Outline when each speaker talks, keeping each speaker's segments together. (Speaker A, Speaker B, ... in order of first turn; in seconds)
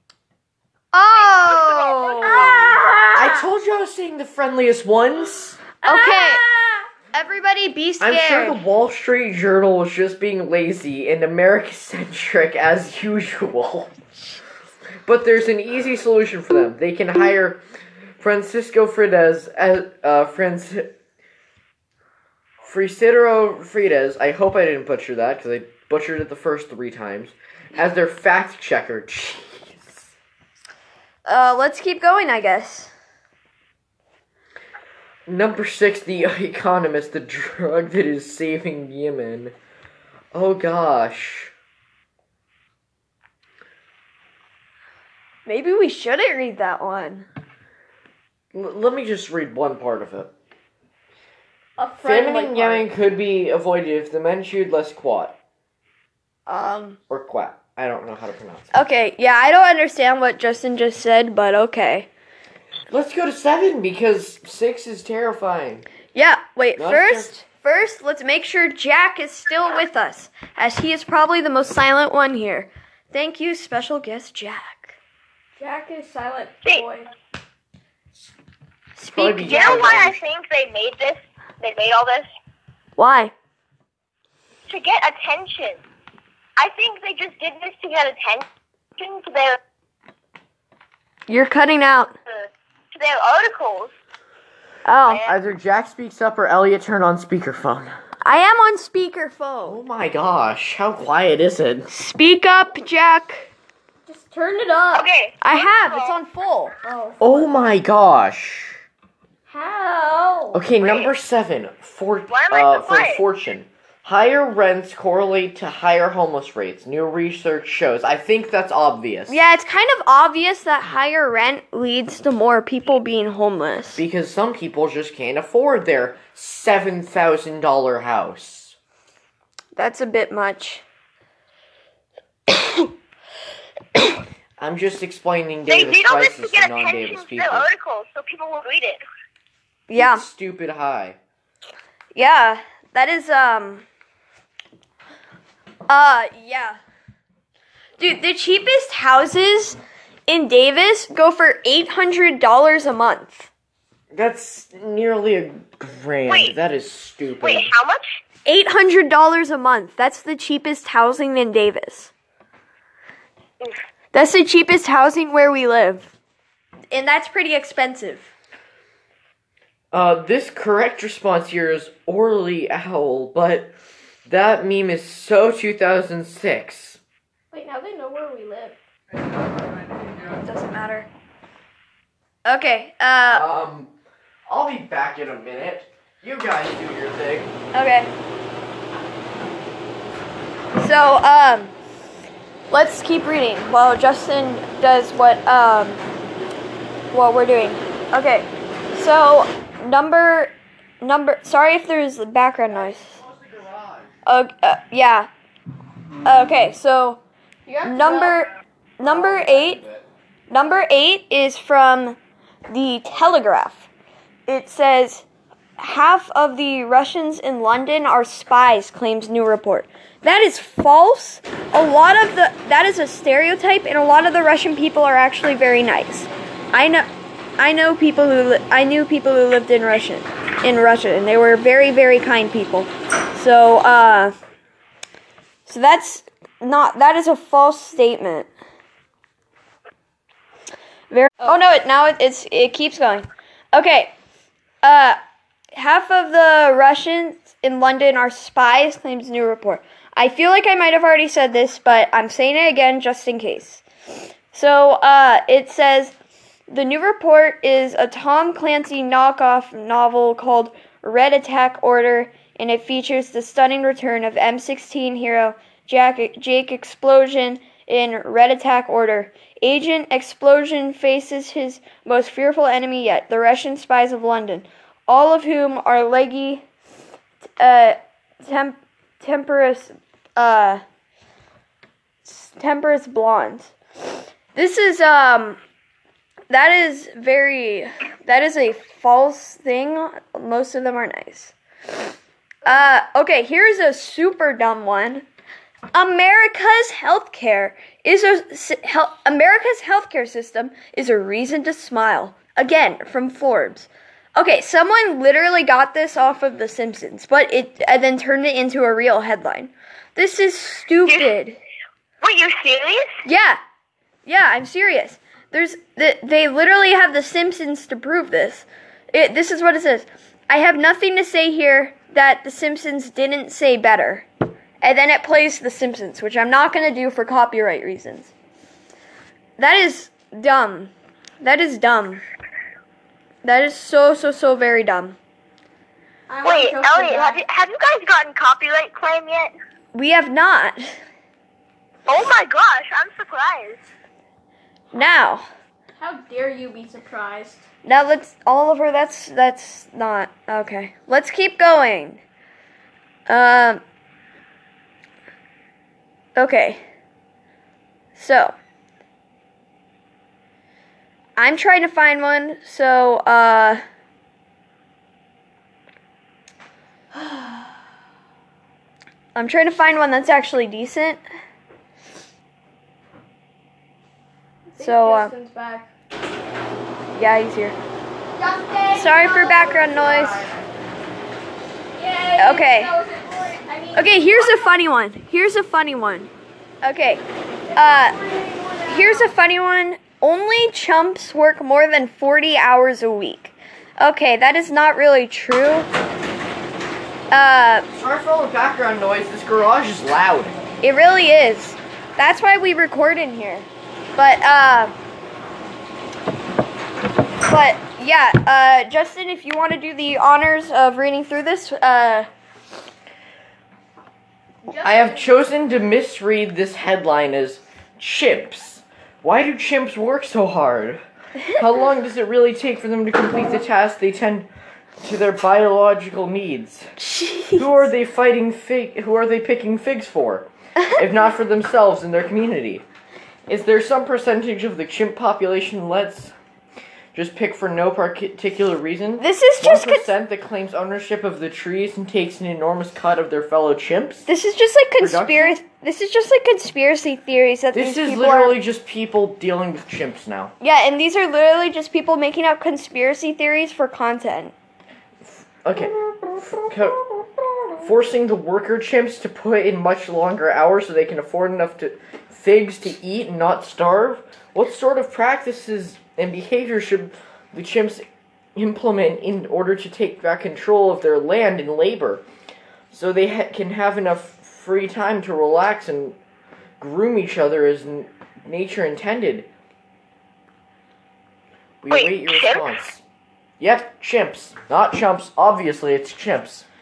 Speaker A: 0.9-2.8, 5.8-6.4, 7.1-8.6, 31.2-32.9, 45.5-47.3, 56.5-57.0, 58.7-62.1, 66.1-75.0, 79.0-79.9, 83.0-83.3, 91.3-92.1, 94.8-95.2, 98.2-99.8, 101.9-103.5, 105.4-106.8, 119.3-124.0, 129.8-130.8, 139.9-140.2, 142.1-143.8, 145.9-146.8, 148.0-153.5, 158.4-162.1, 164.1-166.1, 166.9-168.3, 180.4-181.1, 182.4-183.4, 187.7-188.1, 190.8-191.7, 192.7-196.0, 197.1-203.2, 204.2-205.3, 206.2-207.2, 207.8-209.8, 210.5-212.2, 212.7-213.9, 214.5-215.2, 215.8-227.1, 227.6-234.3, 235.7-238.5, 241.1-244.1, 244.8-245.2, 245.7-253.8, 254.5-256.1, 256.7-276.6, 277.6-280.8, 282.2-283.7, 284.5-285.6, 286.5-291.5, 292.6-295.2, 295.9-311.6, 313.2-313.6, 314.2-324.3, 324.8-328.3, 329.6-332.2, 333.4-335.1, 339.9-341.0, 344.9-345.4, 347.8-352.2, 353.3-353.8, 356.4-356.8, 358.1-358.5, 361.4-363.8, 369.3-371.2, 374.8-375.3, 377.1-377.8, 378.9-380.5, 382.4-382.9, 383.9-386.3, 386.8-387.2, 387.8-388.1, 388.8-395.9, 397.3-397.9, 400.8-404.9, 407.4-412.3, 427.0-427.9, 439.2-440.1, 444.3-448.6, 450.6-454.5
Speaker B: 1.1-2.7, 79.4-82.3, 84.7-85.8, 86.6-88.5, 89.0-89.6, 92.4-93.9, 95.1-95.4, 104.9-106.2, 110.8-111.1, 112.3-113.2, 135.7-139.0, 156.3-156.5, 157.4-158.1, 311.1-311.3, 312.2-313.1, 336.4-339.5, 342.1-343.8, 481.9-482.7
Speaker C: 2.2-3.4, 5.8-6.9, 51.8-52.8, 75.6-77.1, 104.1-105.1, 106.8-107.7, 109.5-110.6, 177.5-178.8, 207.7-208.4, 336.3-337.4, 346.0-347.6, 374.7-375.9, 378.4-380.6, 381.9-384.6, 387.7-389.3, 414.6-415.3
Speaker D: 3.1-5.8, 8.0-13.9, 15.0-17.6, 18.2-20.9, 22.6-30.1, 35.3-39.5, 40.3-41.5, 48.5-50.3, 52.0-55.4, 57.1-58.7, 62.9-65.8, 66.8-67.3, 79.1-80.2, 95.2-97.9, 99.7-101.9, 107.2-108.8, 110.5-119.4, 124.0-128.8, 134.6-137.7, 139.9-141.2, 154.1-157.7, 169.9-173.7, 174.2-177.0, 183.3-183.9, 184.5-187.5, 202.7-204.1, 209.0-210.0, 397.9-400.6, 414.8-424.5, 425.0-426.9, 427.5-432.8, 433.5-436.3, 437.1-444.3, 445.0-445.6, 447.7-450.5, 455.3-457.0, 457.8-468.0, 468.6-472.2, 472.9-476.2, 476.8-479.5, 481.8-483.0, 483.6-486.6